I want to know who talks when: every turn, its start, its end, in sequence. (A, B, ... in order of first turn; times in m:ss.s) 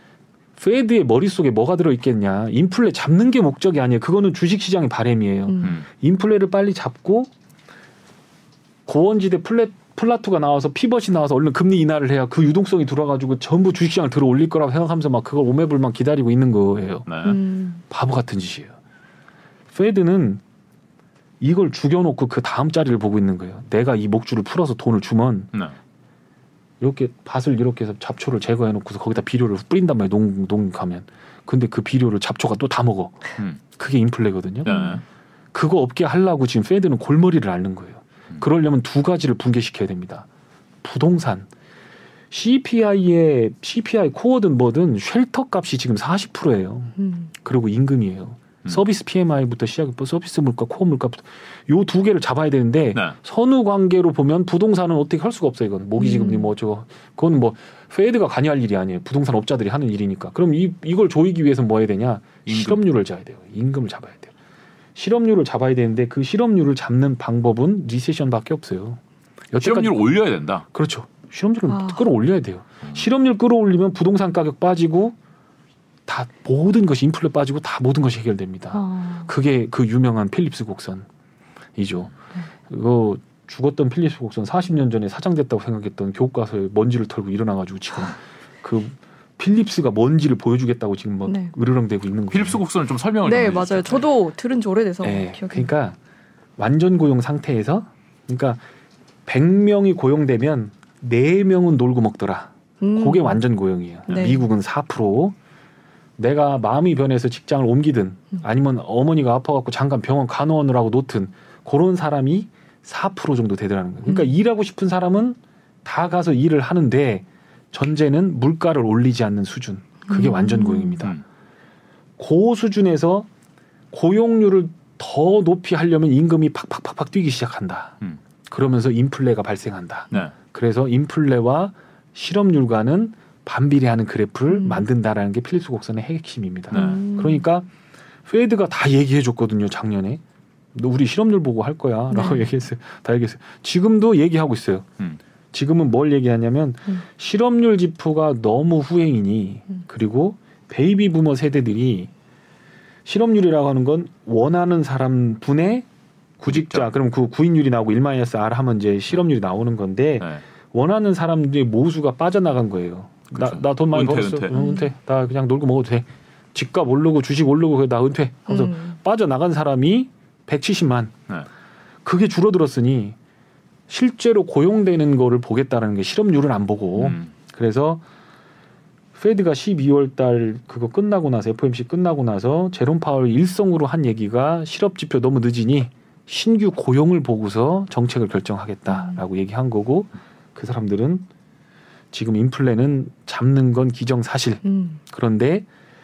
0:00.6-0:07.3 A
0:05.5-0:05.7 B
0:08.9-0:17.1 A
0:17.1-0:17.4 C
0:17.2-0:17.8 B
0:17.9-0:18.8 A
0:19.7-0:20.4 A
0:21.4-0:25.5 A
0:26.8-0:34.7 A
0:34.6-0:35.0 C
0:34.7-0:35.0 B
0:35.5-0:40.3 A
0:40.8-0:41.5 A
0:42.3-1:04.3 A
0:47.0-0:47.3 B
0:56.0-0:56.5 B
1:02.5-1:02.8 C
1:05.0-1:09.0 A
1:09.5-1:10.1 A
1:09.6-1:10.6 C
1:10.7-1:15.2 A
1:11.7-1:12.0 B
1:16.1-1:21.1 A
1:18.7-1:19.3 B
1:21.8-1:22.1 A
1:22.7-1:32.6 A
1:31.3-1:31.5 B
1:32.3-1:34.1 C
1:33.2-1:35.7 B
1:35.0-1:36.0 A
1:36.6-1:38.6 A
1:39.3-1:45.4 A
1:42.8-1:43.4 B
1:44.1-1:44.5 B
1:46.2-2:01.2 A
2:00.1-2:01.0 B
2:02.2-2:03.3 A
2:03.9-2:17.7 A
2:14.5-2:14.8 B
2:16.7-2:17.0 C
2:16.7-2:17.4 B
2:18.3-2:20.2 A
2:20.7-2:24.9 A
2:22.1-2:22.4 B
2:25.5-2:32.1 A
2:33.0-2:35.9 A
2:36.4-2:51.2 A
2:36.5-2:36.9 C
2:43.3-2:44.5 C
2:44.5-2:44.9 B
2:48.5-2:49.0 B
2:52.0-2:53.2 A
2:53.9-2:58.0 A
2:57.0-2:57.3 C
2:59.2-3:11.3 A
3:08.9-3:09.2 B
3:12.1-3:15.7 A
3:14.6-3:15.0 B